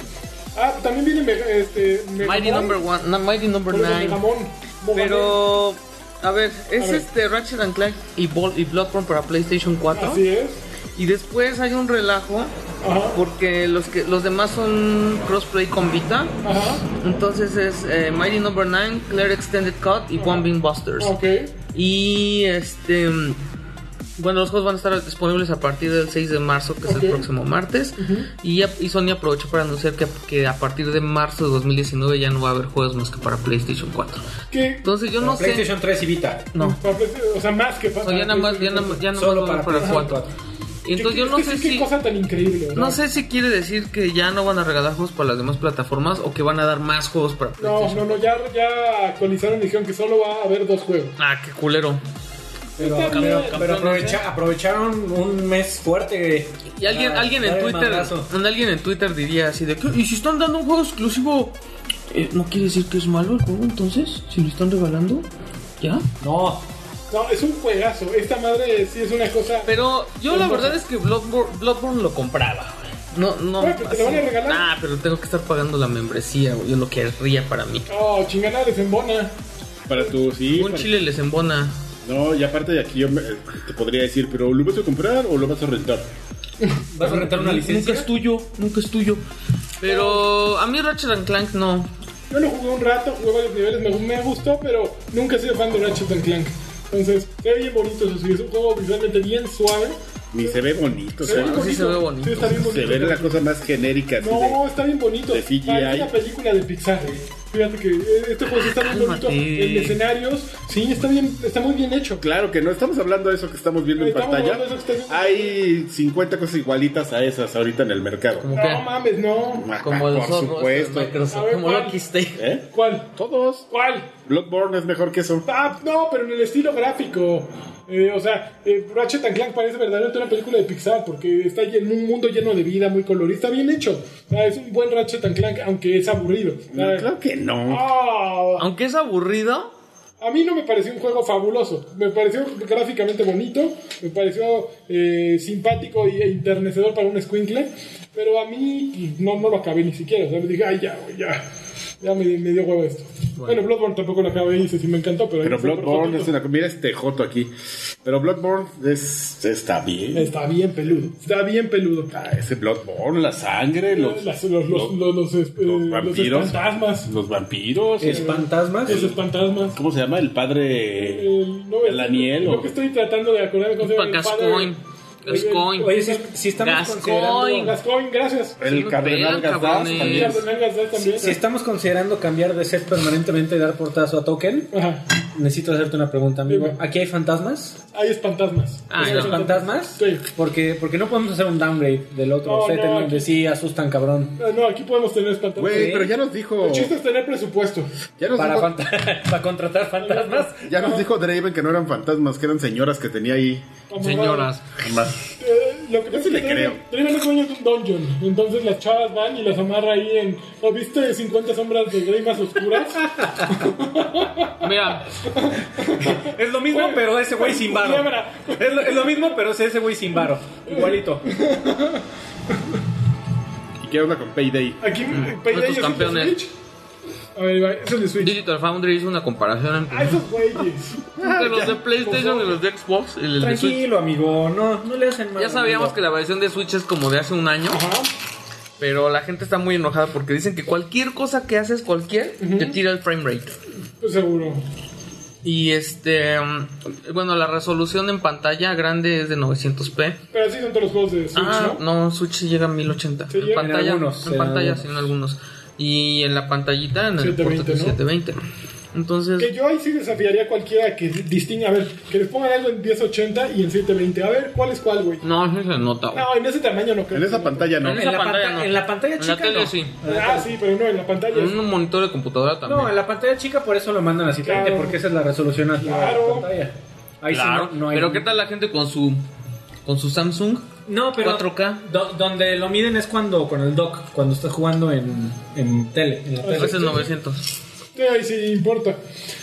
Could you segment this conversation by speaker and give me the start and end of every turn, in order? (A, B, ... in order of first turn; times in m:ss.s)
0:00.6-0:02.8 A
0:02.2-0:04.2 B
0:03.7-0:05.4 A
0:04.9-0:10.2 B
0:06.8-0:07.0 A
0:09.9-0:10.6 A
0:11.0-0:12.5 B
0:12.8-0:13.2 A
0:13.1-0:21.1 B
0:16.4-0:16.8 A
0:20.2-0:20.5 A
0:21.0-0:21.5 A
0:21.7-0:23.4 B
0:24.2-0:34.3 B
0:26.8-0:27.3 A
0:28.0-0:28.3 A
0:34.5-0:34.9 A
0:34.8-0:35.7 B
0:35.2-0:36.5 C
0:36.6-0:39.0 A
0:38.0-0:40.2 B
0:39.1-0:40.3 C
0:39.8-0:40.1 A
0:40.8-0:41.9 B
0:41.0-0:43.0 A
0:42.8-0:48.2 B
0:47.6-0:51.1 A
0:51.2-0:52.0 B
0:52.8-0:53.6 A
0:52.8-0:58.3 C
0:53.1-0:54.2 B
0:56.7-1:01.6 B
1:02.1-1:05.3 B
1:05.8-1:06.1 B
1:06.2-1:06.6 C
1:07.1-1:09.7 A
1:09.6-1:17.9 B
1:10.3-1:10.8 A
1:13.6-1:14.7 A
1:17.9-1:19.3 A
1:19.9-1:20.9 D
1:20.5-1:21.8 B
1:22.0-1:26.1 D
1:26.9-1:28.1 C
1:27.0-1:29.2 B
1:29.8-1:31.9 B
1:29.8-1:30.3 A
1:32.3-1:40.6 A
1:40.3-1:41.8 D
1:41.2-1:43.4 A
1:41.2-1:42.6 B
1:42.5-1:44.6 D
1:44.2-1:52.2 A
1:45.3-1:46.1 D
1:48.5-1:50.0 B
1:52.2-1:58.5 D
1:54.0-1:55.6 A
1:58.4-1:58.8 B
1:58.5-1:59.7 A
1:59.6-2:01.2 D
1:59.8-2:02.4 B
2:01.3-2:02.0 A
2:02.4-2:03.7 D
2:02.7-2:03.1 A
2:03.7-2:04.1 A
2:04.3-2:05.5 D
2:05.5-2:17.1 A
2:16.7-2:17.8 D
2:17.7-2:18.6 A
2:18.6-2:19.7 B
2:20.2-2:31.4 A
2:32.0-2:36.3 A
2:33.4-2:33.6 B
2:35.4-2:37.5 D
2:38.0-2:40.3 D
2:40.1-2:42.1 A
2:42.1-2:45.0 D
2:43.9-2:47.1 A
2:45.6-2:48.3 D
2:48.0-2:49.0 C
2:48.0-2:49.8 A
2:48.9-2:49.2 D
2:49.7-2:51.3 D
2:51.1-2:54.8 A
2:51.8-2:52.7 D
2:53.8-2:56.0 B
2:55.3-2:56.4 A
2:55.3-2:57.8 C
2:56.6-2:57.8 B
2:57.5-2:58.6 A
2:58.6-3:00.5 D
2:58.6-3:00.4 B
2:59.9-3:01.4 A
3:00.9-3:07.8 C
3:04.7-3:05.0 A
3:06.5-3:06.8 A
3:07.9-3:10.3 A
3:08.9-3:09.4 B
3:09.0-3:14.4 C
3:12.4-3:13.3 A
3:14.4-3:16.1 A
3:15.6-3:16.9 D
3:15.6-3:16.1 C
3:16.6-3:17.9 A
3:18.2-3:18.7 D
3:18.4-3:20.6 C
3:20.0-3:21.1 A
3:20.6-3:23.7 D
3:23.9-3:24.5 A
3:24.0-3:24.6 B
3:24.8-3:25.2 D
3:25.4-3:39.4 A
3:26.1-3:26.8 D
3:33.1-3:33.6 C
3:34.6-3:35.1 B
3:36.0-3:41.2 C
3:40.1-3:42.8 A
3:43.8-3:44.8 D
3:44.8-3:46.5 A
3:45.1-3:46.4 B
3:47.4-3:48.3 A
3:48.2-3:50.2 B
3:49.9-3:51.0 A
3:51.2-3:51.8 D
3:51.2-3:53.8 B
3:52.0-3:52.6 A
3:53.4-3:56.0 C
3:55.4-3:57.8 B
3:57.7-3:58.1 A
3:58.8-4:03.6 B
4:02.4-4:02.8 A
4:04.0-4:04.6 A
4:05.4-4:10.2 B
4:10.3-4:11.8 A
4:11.4-4:18.4 B
4:13.3-4:13.8 A
4:13.6-4:15.0 C
4:17.2-4:18.0 A
4:18.9-4:19.5 B
4:19.4-4:25.2 A
4:25.2-4:26.2 B
4:26.1-4:27.8 A
4:27.1-4:28.0 D
4:27.8-4:30.0 B
4:27.8-4:30.5 C
4:30.0-4:31.6 A
4:31.3-4:32.9 B
4:32.6-4:38.2 C
4:34.4-4:35.0 A
4:35.8-4:36.5 A
4:37.3-4:39.2 B
4:39.9-4:40.7 B
4:40.9-4:47.1 C
4:41.2-4:41.8 B
4:46.4-4:47.1 A
4:46.6-4:47.4 B
4:48.0-4:49.0 A